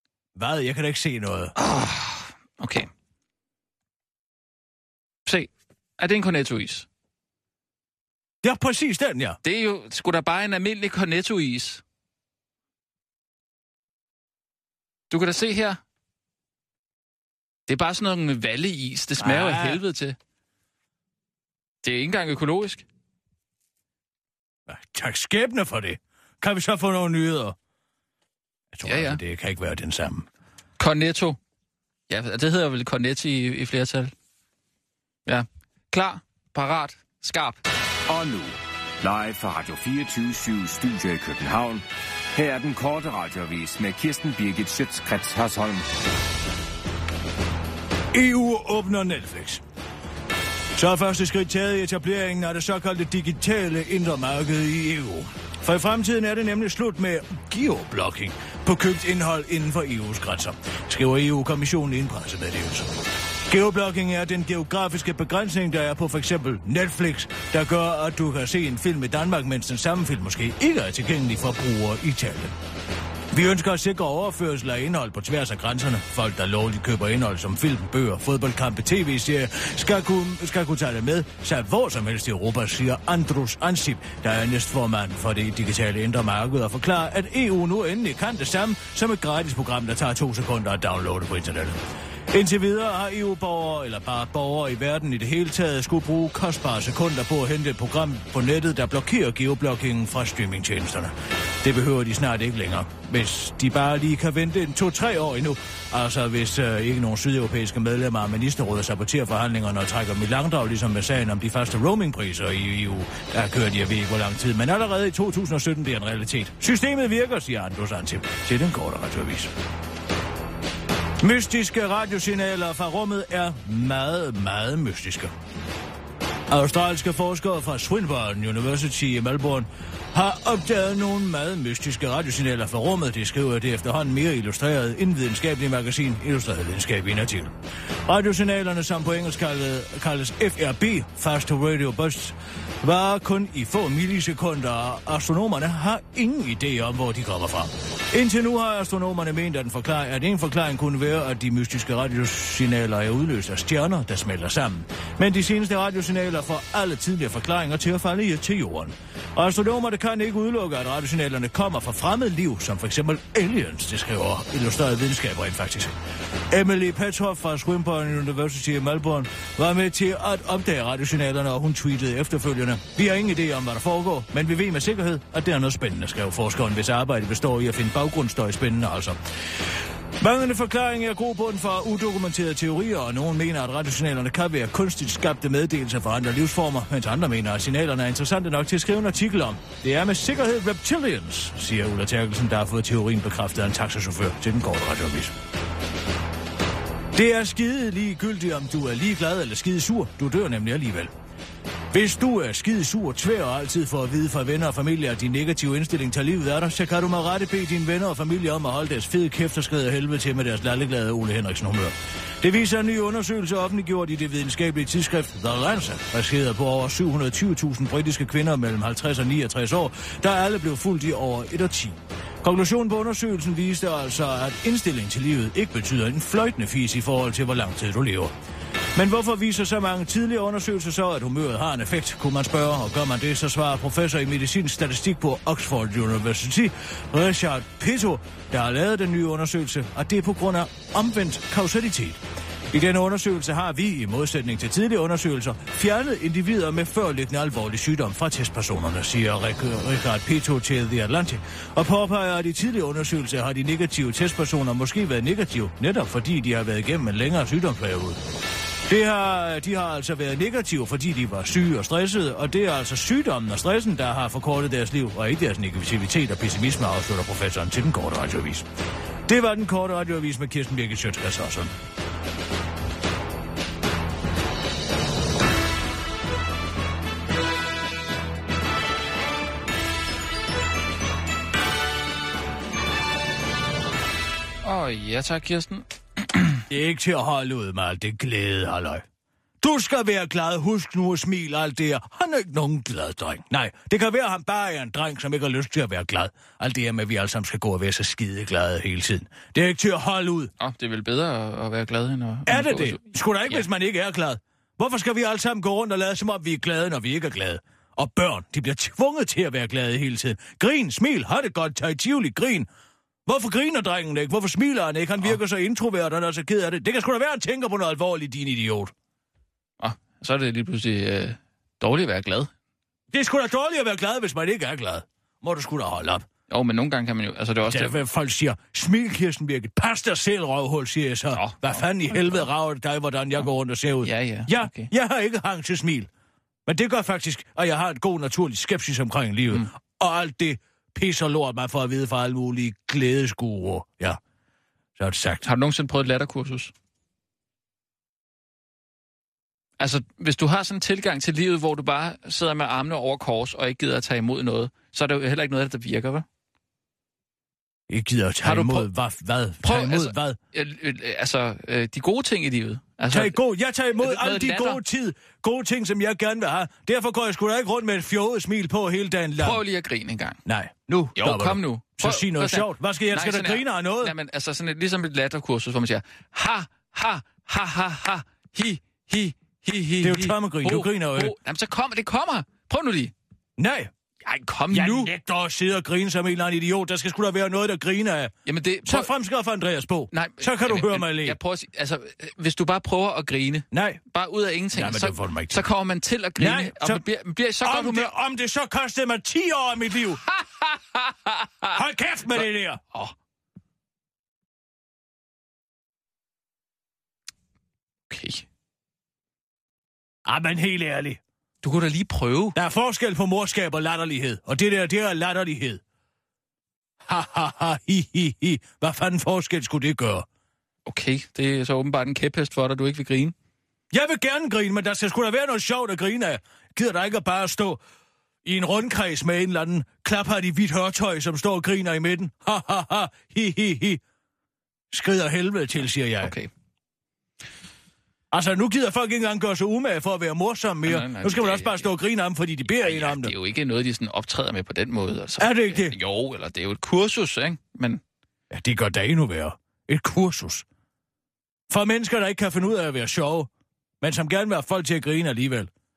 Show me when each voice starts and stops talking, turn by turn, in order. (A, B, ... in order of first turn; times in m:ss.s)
0:00.4-0:01.5 A
0:01.6-0:02.9 B
0:05.2-0:06.8 B
0:08.4-0:09.4 A
0:09.4-0:11.8 B
0:15.1-0:15.8 B
0:17.7-0:20.2 B
0:19.2-0:19.8 A
0:21.8-0:22.8 B
0:24.7-0:27.6 A
0:28.7-0:30.3 A
0:28.8-0:29.2 B
0:30.8-0:31.4 B
0:32.1-0:34.1 B
0:35.2-0:37.6 B
0:38.1-0:45.8 C
0:48.1-0:49.6 A
0:50.8-1:02.9 A
1:03.5-1:12.6 A
1:13.3-1:31.8 A
1:32.3-1:59.5 A
2:01.2-2:05.3 A
2:06.5-2:45.9 A
2:46.5-2:59.2 A
3:00.2-3:15.3 A
3:17.1-3:21.1 A
3:21.9-3:48.3 A
3:48.9-4:02.2 A
4:02.7-4:18.2 A
4:18.9-4:28.6 A
4:29.2-4:31.8 A
4:44.6-4:46.6 B
4:46.7-4:49.0 A
4:49.6-5:00.5 A
5:00.6-5:03.6 B
5:02.5-5:12.7 A
5:13.2-5:18.9 A
5:19.8-5:22.5 B
5:23.1-5:26.3 A
5:26.5-5:28.0 B
5:27.6-5:36.1 A
5:31.3-5:32.5 B
5:34.0-5:34.9 B
5:36.6-5:44.2 A
5:45.0-5:45.4 A
5:45.4-5:46.7 B
5:49.8-5:56.2 B
5:57.9-6:00.4 A
5:58.4-5:58.9 B
5:59.6-6:03.4 B
6:03.1-6:09.6 A
6:04.0-6:04.8 B
6:09.4-6:10.4 B
6:10.4-6:14.1 A
6:11.2-6:23.1 B
6:20.0-6:21.4 A
6:23.6-6:23.9 A
6:24.2-6:25.1 B
6:24.7-6:31.4 A
6:28.4-6:29.1 B
6:30.1-6:38.1 B
6:33.7-6:34.0 A
6:34.7-6:35.6 A
6:36.4-6:37.0 A
6:37.6-6:40.3 A
6:40.3-6:41.8 B
6:41.7-6:42.8 A
6:48.1-6:48.4 B
6:50.2-6:51.2 A
6:51.6-6:52.6 B
6:52.5-6:55.8 A
6:57.0-7:00.3 A
7:00.8-7:03.3 B
7:03.9-7:07.8 A
7:08.4-7:14.0 A
7:14.9-7:16.3 A
7:16.2-7:16.5 B
7:18.3-7:23.3 A
7:20.8-7:21.9 B
7:22.7-7:28.0 B
7:25.4-7:25.9 A
7:28.5-7:30.6 A
7:31.7-7:33.5 A
7:34.0-7:35.7 A